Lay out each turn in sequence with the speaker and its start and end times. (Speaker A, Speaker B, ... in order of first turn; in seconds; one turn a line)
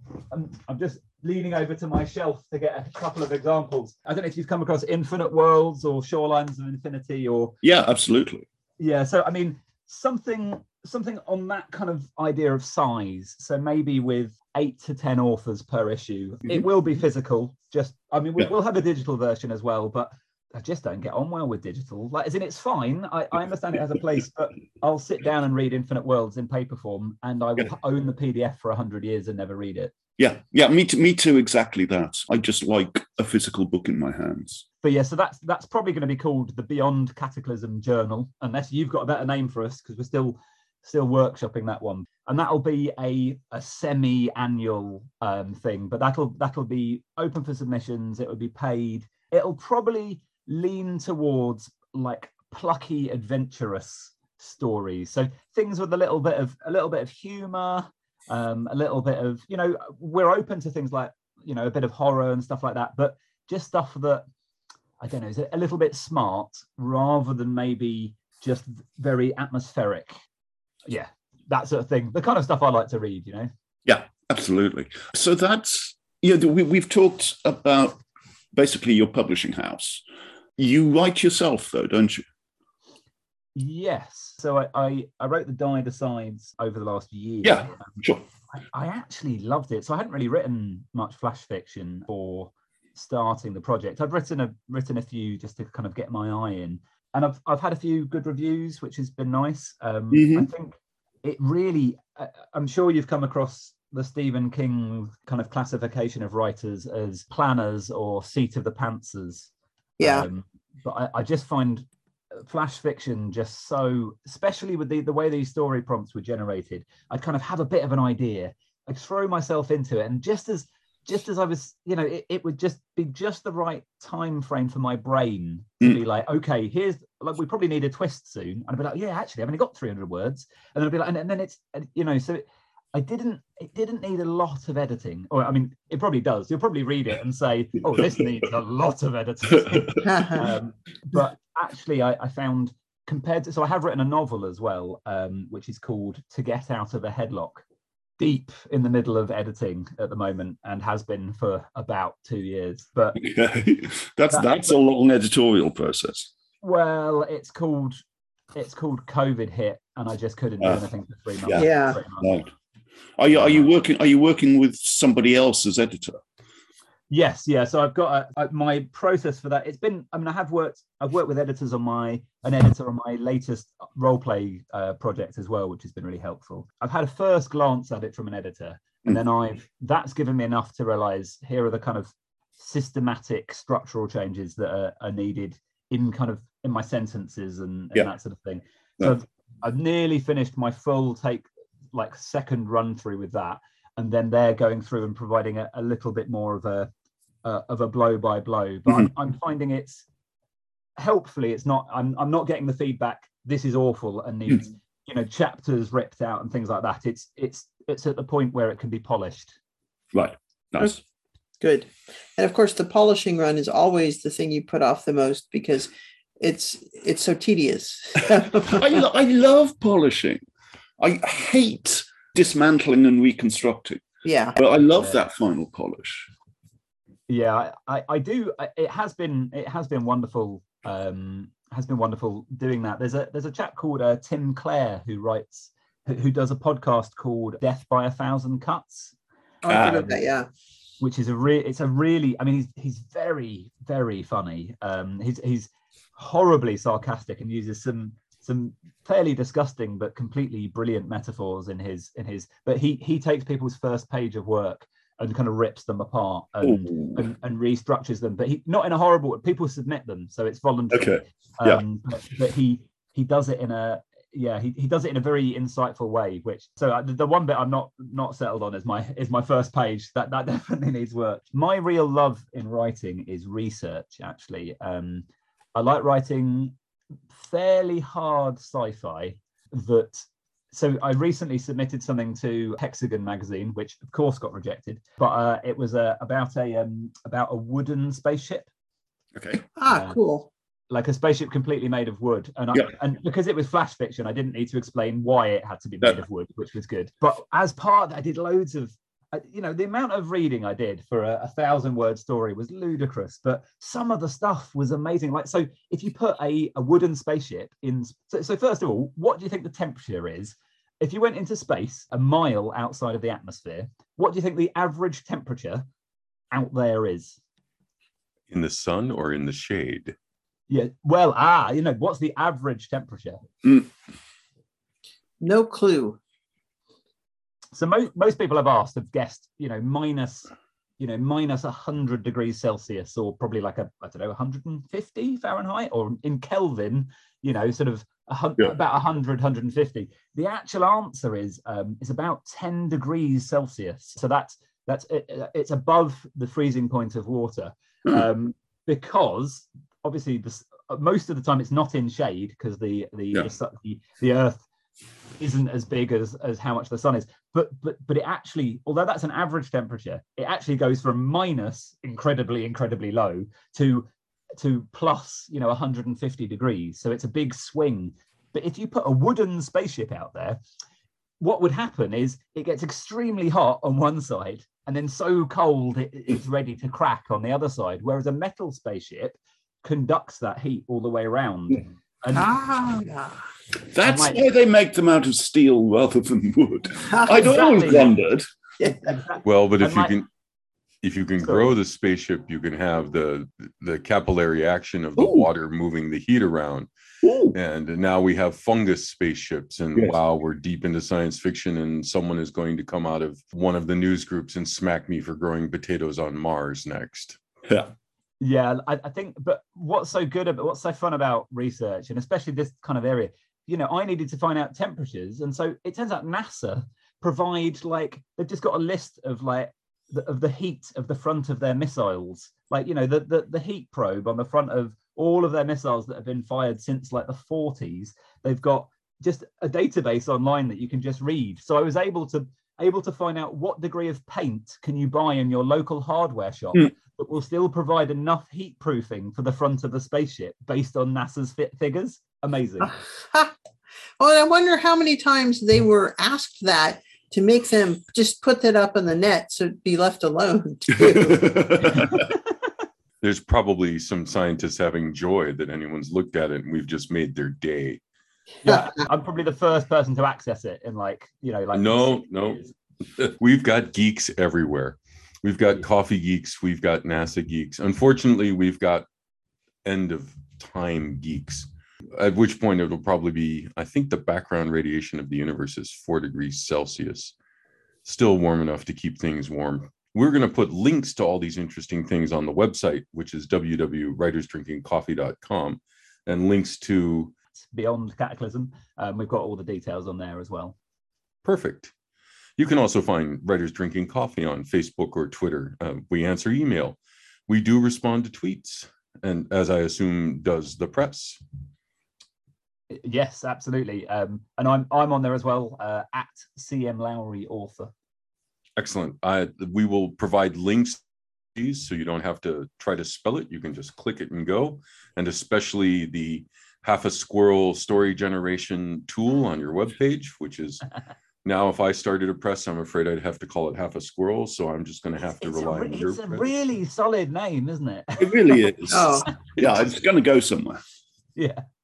Speaker A: 0.3-7.5
Speaker B: 7.6-8.4
Speaker A: 8.8-29.9
Speaker B: 30.2-34.6
Speaker A: 34.8-64.2
Speaker A: 65.0-70.2
Speaker A: 70.9-73.5
Speaker B: 73.8-78.0
Speaker B: 78.5-80.0
Speaker B: 80.6-82.2
Speaker A: 83.5-88.0
Speaker B: 87.4-88.2
Speaker A: 88.5-147.6
Speaker B: 100.1-100.5
Speaker C: 110.0-110.3
Speaker C: 140.0-140.5
Speaker A: 148.2-153.2
Speaker B: 153.2-156.3
Speaker A: 154.3-154.6
Speaker A: 156.6-158.0
Speaker A: 158.5-162.3
Speaker B: 161.4-162.5
Speaker C: 161.5-162.0
Speaker B: 163.2-166.2
Speaker A: 163.3-163.6
Speaker A: 167.1-196.9
Speaker A: 197.4-200.1
Speaker A: 201.0-209.5
Speaker B: 210.1-211.0
Speaker C: 211.6-219.0
Speaker B: 218.6-220.4
Speaker B: 221.0-224.0
Speaker C: 224.2-224.6
Speaker B: 224.6-226.3
Speaker A: 224.9-225.2
Speaker A: 227.3-239.1
Speaker C: 239.6-240.5
Speaker B: 239.7-240.1
Speaker A: 239.8-240.1
Speaker A: 241.0-276.7
Speaker B: 256.6-257.2
Speaker B: 260.9-261.8
Speaker A: 277.3-288.7
Speaker B: 289.3-289.7
Speaker C: 289.8-290.5
Speaker A: 289.9-290.2
Speaker A: 290.9-315.9
Speaker A: 316.5-317.4
Speaker D: 318.5-320.1
Speaker A: 320.7-323.4
Speaker C: 325.4-326.2
Speaker A: 327.7-354.7
Speaker A: 355.4-370.6
Speaker A: 371.4-382.5
Speaker B: 382.4-382.7
Speaker C: 382.7-383.4
Speaker B: 383.9-388.4
Speaker A: 384.0-384.4
Speaker C: 387.1-387.6
Speaker A: 387.3-388.2
Speaker A: 388.8-390.1
Speaker D: 389.4-390.3
Speaker D: 391.0-396.9
Speaker A: 391.4-391.7
Speaker B: 395.2-395.5
Speaker B: 397.2-397.6
Speaker D: 397.5-407.4
Speaker B: 407.7-407.9
Speaker A: 408.4-442.9
Speaker C: 442.8-443.5
Speaker C: 444.2-451.8
Speaker B: 451.0-452.2
Speaker A: 452.0-452.2
Speaker D: 453.2-458.0
Speaker A: 458.6-462.7
Speaker D: 461.7-462.6
Speaker D: 463.1-469.1
Speaker D: 469.8-477.3
Speaker D: 478.0-487.3
Speaker A: 487.7-490.8
Speaker D: 491.4-491.9
Speaker D: 492.6-497.0
Speaker D: 497.5-501.4
Speaker A: 502.9-507.9
Speaker D: 508.8-511.0
Speaker D: 511.5-520.9
Speaker D: 521.4-526.4
Speaker A: 525.4-528.9
Speaker B: 528.2-530.8
Speaker C: 528.9-529.3
Speaker A: 531.4-531.6